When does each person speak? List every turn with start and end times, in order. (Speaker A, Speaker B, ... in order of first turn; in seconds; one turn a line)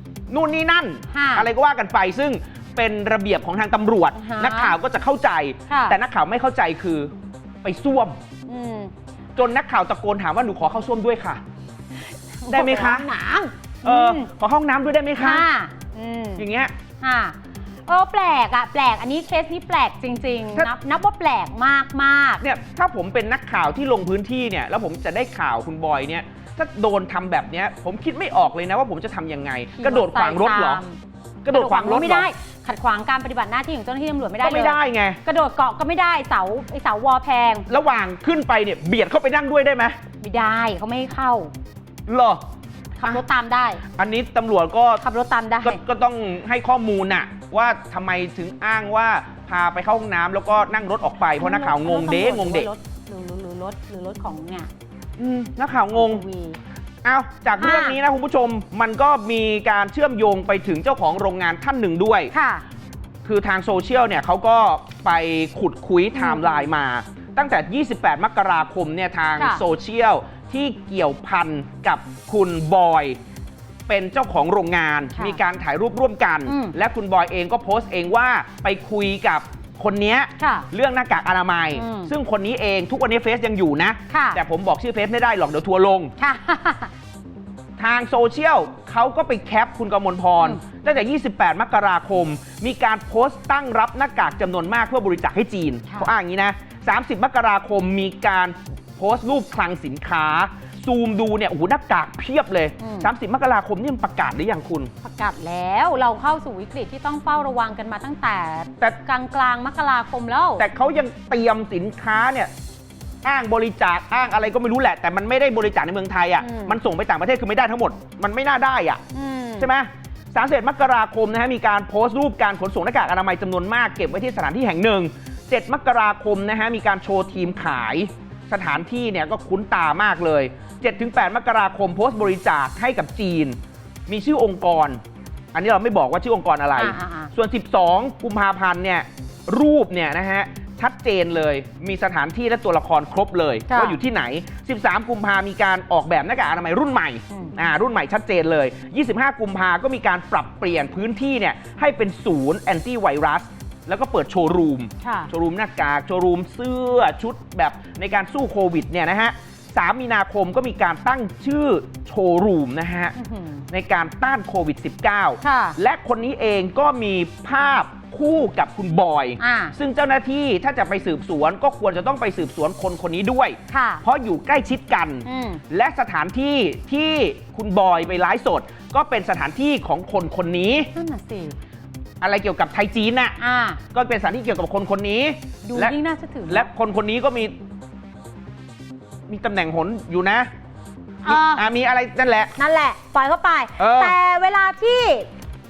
Speaker A: 0.3-7.1
Speaker B: 1.1-1.5
Speaker B: 4.2-4.8
Speaker B: 5.7-6.0
Speaker A: 7.6-8.2
Speaker B: 8.5-8.9
Speaker A: 9.4-11.4
Speaker B: 12.4-14.3
Speaker A: 12.5-13.1
Speaker A: 13.8-15.5
Speaker B: 15.2-16.4
Speaker A: 16.4-16.7
Speaker B: 17.0-17.4
Speaker B: 17.9-22.4
Speaker A: 22.4-30.8
Speaker B: 29.8-31.0
Speaker A: 31.4-32.3
Speaker B: 31.5-37.7
Speaker A: 34.4-35.2
Speaker A: 37.7-40.0
Speaker B: 40.2-41.5
Speaker A: 42.1-42.4
Speaker B: 43.0-43.8
Speaker A: 44.0-45.0
Speaker B: 45.0-45.8
Speaker A: 45.6-52.7
Speaker B: 51.4-54.7
Speaker A: 55.2-56.2
Speaker B: 55.9-56.6
Speaker A: 57.0-62.3
Speaker B: 57.6-58.0
Speaker B: 62.3-62.6
Speaker A: 63.2-73.2
Speaker B: 66.1-66.7
Speaker A: 73.9-86.1
Speaker B: 76.5-76.8
Speaker B: 80.4-80.7
Speaker B: 81.7-82.1
Speaker B: 84.1-84.4
Speaker B: 86.2-86.9
Speaker A: 87.8-104.9
Speaker B: 102.8-103.1
Speaker B: 105.0-110.7
Speaker A: 110.6-112.5
Speaker A: 113.2-119.0
Speaker B: 116.4-116.8
Speaker B: 119.1-119.7
Speaker A: 119.6-133.6
Speaker A: 134.1-135.0
Speaker A: 135.5-163.2
Speaker B: 136.8-137.3
Speaker B: 143.7-144.0
Speaker B: 147.3-147.6
Speaker B: 155.0-155.3
Speaker B: 163.2-163.7
Speaker A: 163.7-180.9
Speaker B: 165.4-165.8
Speaker B: 169.4-169.7
Speaker B: 173.7-174.0
Speaker B: 175.3-175.6
Speaker B: 180.9-181.6
Speaker A: 182.2-183.4
Speaker B: 183.4-183.8
Speaker A: 183.9-186.0
Speaker B: 185.7-186.7
Speaker A: 186.5-187.6
Speaker A: 189.3-190.5
Speaker B: 191.2-191.6
Speaker A: 191.2-192.5
Speaker B: 192.6-195.3
Speaker A: 193.8-194.2